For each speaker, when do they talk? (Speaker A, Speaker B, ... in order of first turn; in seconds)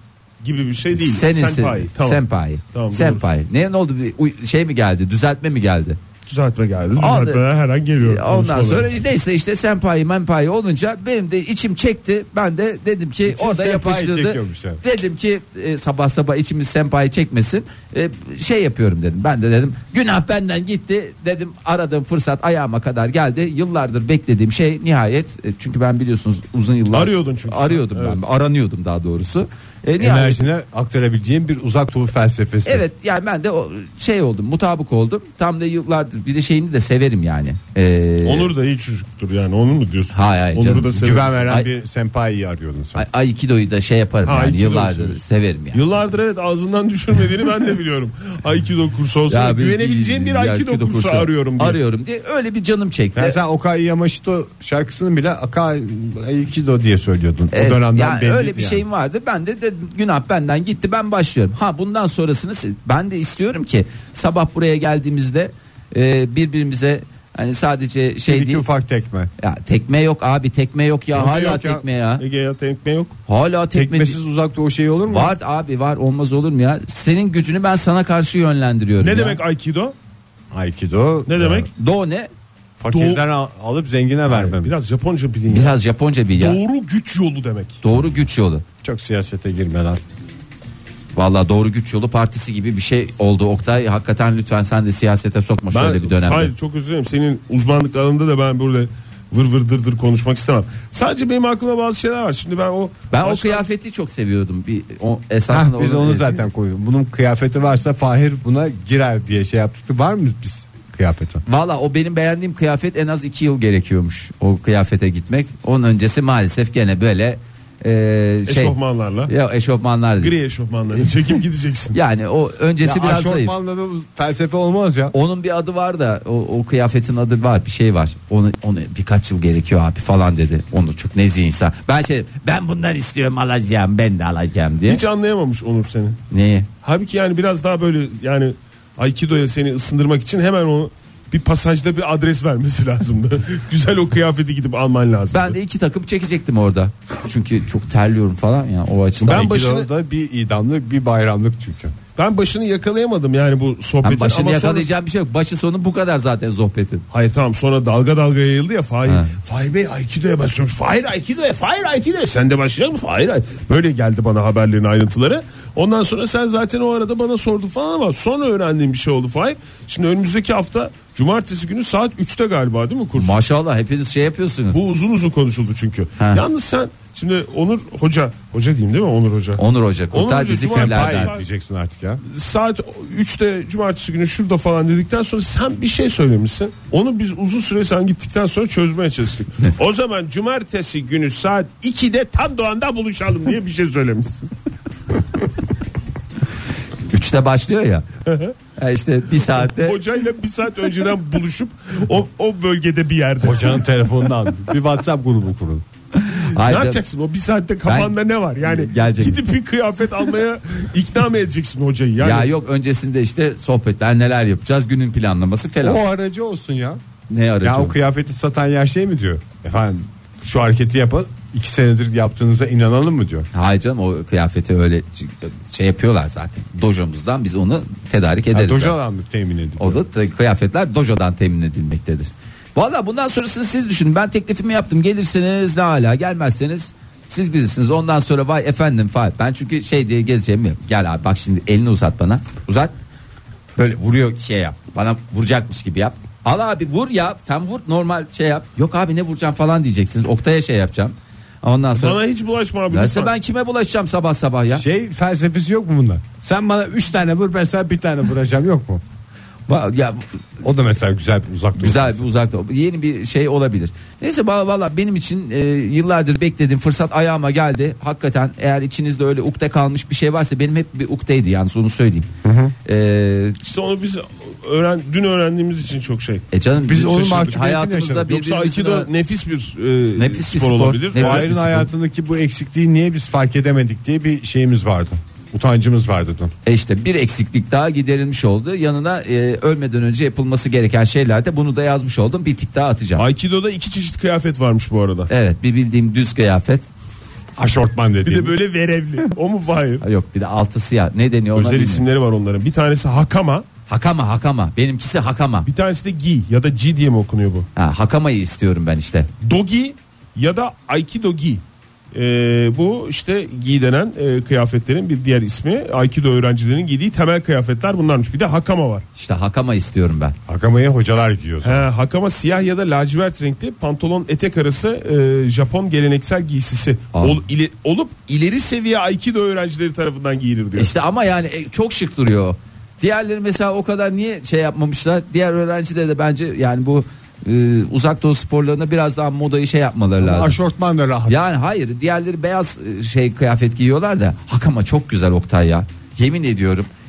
Speaker A: 0.4-2.2, 2.7-3.2, 6.3-8.9, 26.9-28.2, 38.2-41.5, 44.2-45.2, 45.7-51.8, 72.2-73.2, 79.0-80.0, 81.3-81.7, 82.9-83.2, 84.3-85.8, 86.3-87.8, 95.7-103.7, 118.5-119.3, 120.2-122.0, 134.9-136.2, 136.8-145.6, 149.2-149.9, 152.2-154.9, 157.1-173.4, 174.7-181.4, 182.3-194.5, 198.3-198.6, 199.6-203.8, 206.4-212.5, 251.9-253.3, 273.6-276.5, 278.3-281.6, 293.2-295.3, 298.2-300.0, 301.6-303.7, 305.7-307.7, 309.4-311.6, 312.1-319.1, 321.6-330.9
Speaker B: 0.9-6.0, 7.0-7.4, 8.0-30.4, 32.6-38.5, 40.1-41.7, 43.0-45.8, 49.3-53.4, 57.5-68.7, 69.4-72.2, 73.3-74.2, 75.1-79.4, 81.8-82.3, 85.5-86.6, 87.8-88.6, 91.2-96.5, 103.1-106.4, 111.5-118.8, 119.3-120.3, 121.9-123.5, 125.1-135.0, 136.3-136.7, 145.3-149.5, 154.0-157.1, 159.1-159.3, 173.2-174.8, 176.2-176.4, 179.6-181.3, 197.1-198.1, 198.8-200.0, 206.2-207.0, 207.9-209.4, 212.2-216.0, 217.3-217.9, 223.5-229.0, 229.8-242.9, 243.8-252.2, 252.9-254.8, 259.7-260.3, 261.8-272.3, 272.9-273.6, 276.5-279.1, 280.2-281.9, 286.6-293.2, 295.3-296.9, 300.0-302.1, 303.9-305.7, 307.8-309.3, 319.2-320.4, 327.1-327.4, 330.8-340.6, 341.3-346.9
Speaker C: 13.3-14.8, 30.0-32.8, 41.0-43.0, 53.1-58.9, 68.3-69.3, 71.1-71.8, 73.7-75.3, 80.5-81.7, 82.8-84.7, 88.8-90.0, 105.5-111.4, 122.8-125.1, 149.2-151.9, 180.7-182.2, 203.4-205.8, 215.8-217.0, 217.6-223.5, 228.5-230.0, 254.7-259.0, 260.6-262.3, 272.4-272.7, 276.9-278.4, 281.2-286.5, 297.6-298.6, 320.5-321.9, 340.2-341.4